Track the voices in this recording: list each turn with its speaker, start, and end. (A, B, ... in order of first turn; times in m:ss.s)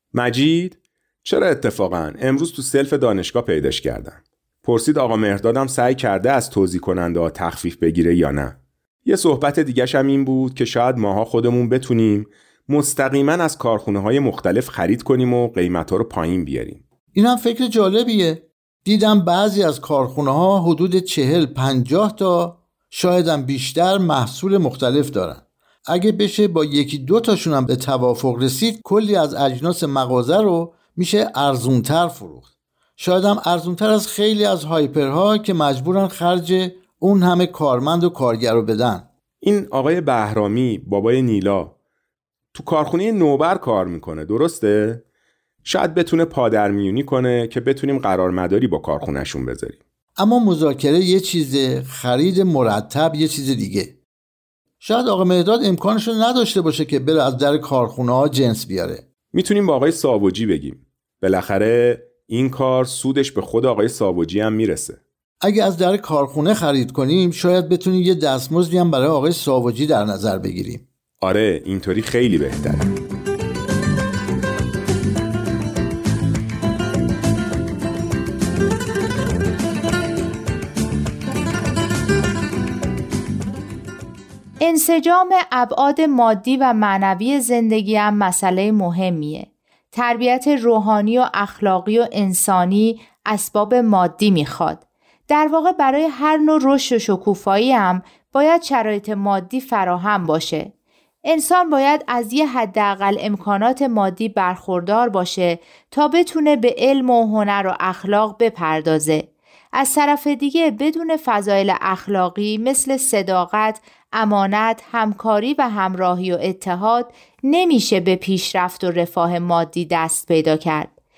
0:00.1-0:16.8 A
0:17.1-0:32.5 B
0:33.0-0:39.1 B
0:39.4-0:41.7 A
0:42.5-0:45.0 A
0:45.6-0:49.8 A
0:50.2-0:54.0 B
0:54.8-0:59.0 B
0:59.3-1:05.0 A
1:05.4-1:10.8 B
1:11.2-1:12.9 A
1:24.6-1:40.7 C
1:41.2-2:00.9 C